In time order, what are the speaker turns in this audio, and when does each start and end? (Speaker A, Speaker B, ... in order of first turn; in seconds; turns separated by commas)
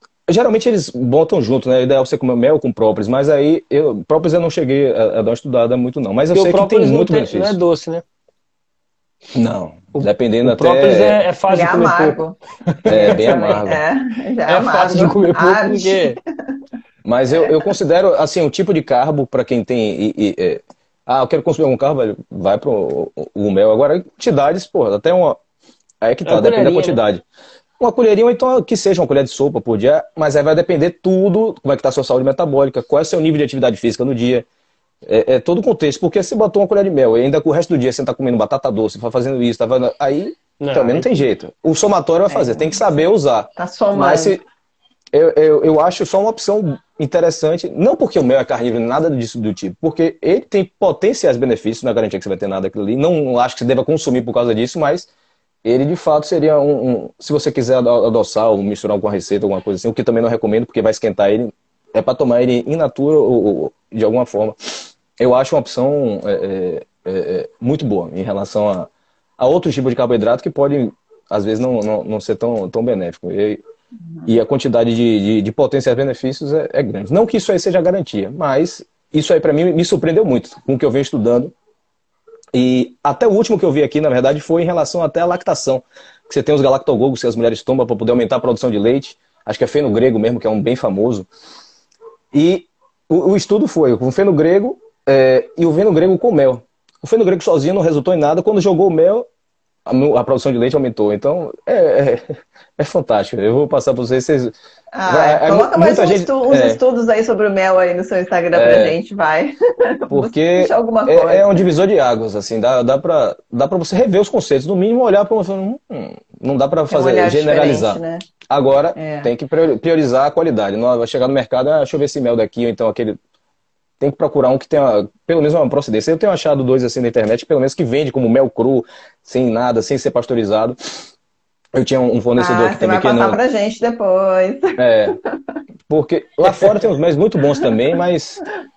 Speaker A: 0.3-7.6, Speaker B: 6.3-8.0, Speaker A: 9.3-11.2, Speaker B: 9.9-13.6, Speaker C: 11.5-16.2, Speaker A: 12.8-13.8, Speaker B: 14.4-16.2, Speaker A: 17.0-25.4, Speaker C: 17.4-17.7, Speaker A: 26.0-27.2, Speaker B: 26.2-27.0, Speaker A: 27.8-34.5, Speaker A: 35.0-44.4, Speaker B: 40.6-41.2, Speaker C: 42.3-42.8, Speaker C: 43.6-44.4, Speaker A: 45.1-55.1, Speaker A: 55.6-64.5, Speaker A: 65.2-73.6, Speaker A: 74.2-81.5, Speaker A: 82.5-91.3, Speaker A: 92.3-99.3, Speaker A: 99.8-104.5, Speaker C: 104.9-111.7, Speaker A: 105.1-106.8, Speaker A: 108.5-109.0, Speaker A: 110.1-123.2, Speaker C: 116.9-118.3, Speaker C: 119.0-119.3, Speaker A: 124.0-130.8, Speaker A: 131.7-133.4, Speaker C: 132.4-135.4, Speaker A: 134.8-135.2, Speaker A: 135.9-138.4